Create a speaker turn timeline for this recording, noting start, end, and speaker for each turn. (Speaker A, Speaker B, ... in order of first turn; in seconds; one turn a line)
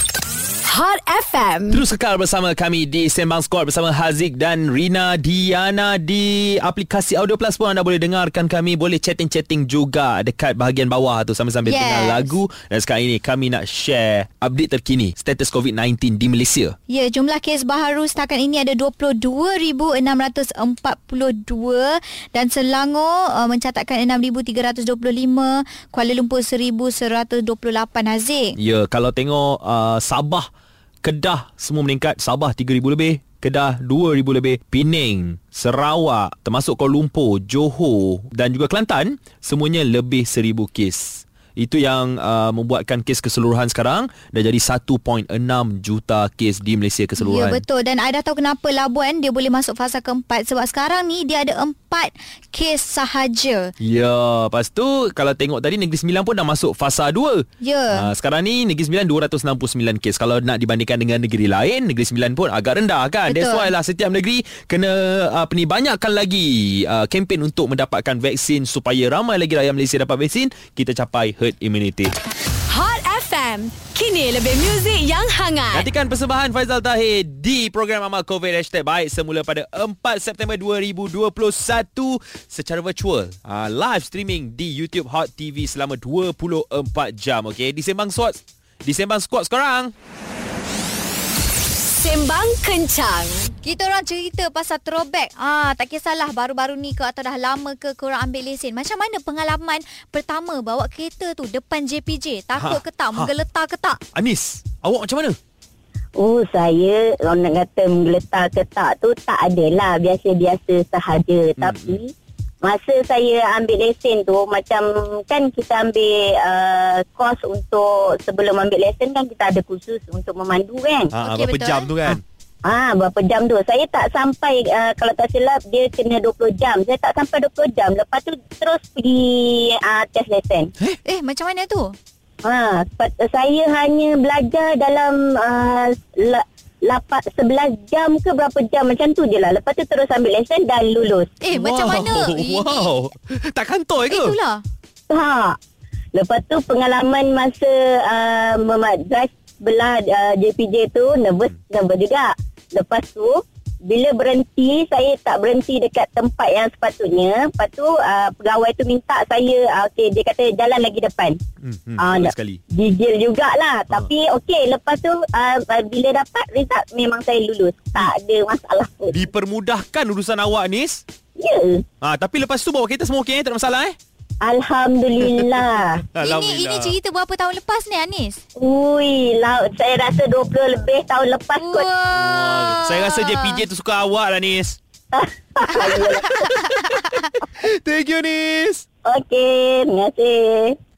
Speaker A: 0.6-1.8
Speaker B: 1.7-16.7
Speaker C: 11.6-12.3
Speaker C: 16.9-28.6
Speaker B: 28.6-30.5
Speaker B: 31.0-47.6
Speaker C: 47.2-53.7
Speaker B: 53.8-72.1
Speaker C: 57.6-58.0
Speaker C: 63.3-63.7
Speaker A: 72.7-75.9
Speaker B: 75.7-89.9
Speaker A: 91.9-93.5
Speaker C: 93.6-104.0
Speaker B: 102.5-103.3
Speaker B: 104.1-105.4
Speaker D: 106.2-121.1
Speaker B: 111.6-112.0
Speaker B: 121.1-122.2
Speaker C: 121.2-121.9
Speaker D: 122.6-130.7
Speaker C: 131.1-131.9
Speaker D: 132.4-141.3
Speaker C: 141.4-142.9
Speaker B: 141.5-144.4
Speaker C: 144.1-144.6
Speaker D: 145.1-145.6
Speaker D: 146.1-161.4
Speaker B: 161.6-162.6
Speaker D: 162.0-169.2
Speaker B: 169.1-171.0
Speaker D: 171.4-171.8
Speaker B: 172.0-173.9
Speaker D: 174.4-176.0
Speaker B: 176.1-177.0
Speaker C: 176.2-178.4
Speaker D: 178.6-181.9
Speaker C: 181.6-183.6
Speaker B: 182.1-184.8
Speaker D: 185.1-186.5
Speaker C: 186.3-187.2
Speaker B: 186.6-188.8
Speaker D: 189.1-190.8